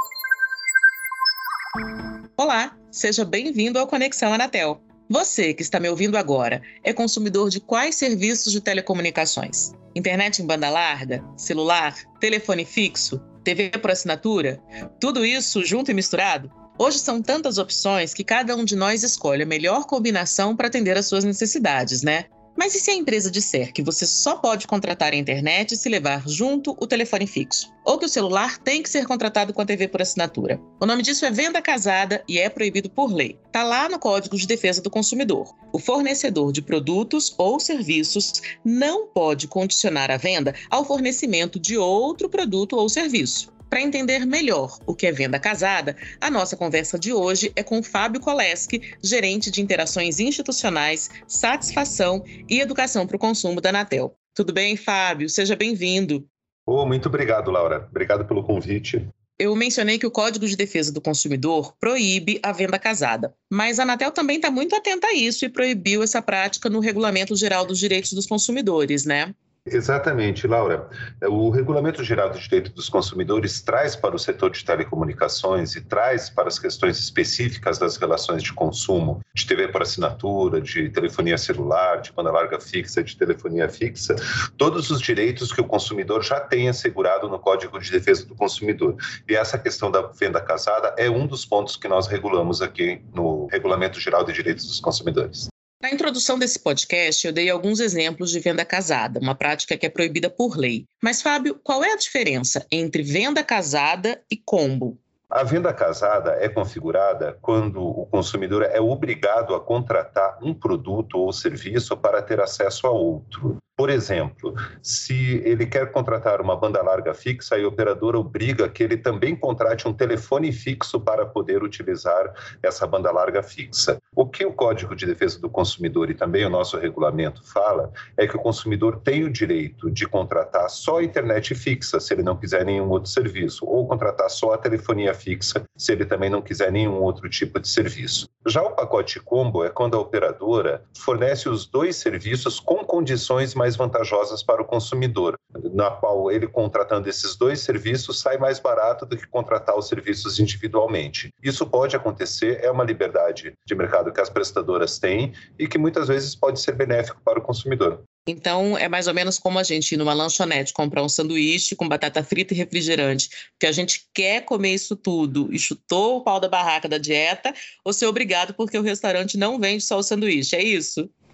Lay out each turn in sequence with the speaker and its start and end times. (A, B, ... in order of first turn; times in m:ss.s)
0:02.4-0:56.3 A
0:56.7-0:59.1 B
0:59.4-1:09.3 A
1:09.7-1:35.5 B
1:35.8-1:45.0 A
1:45.3-2:38.0 B
2:38.3-2:51.1 A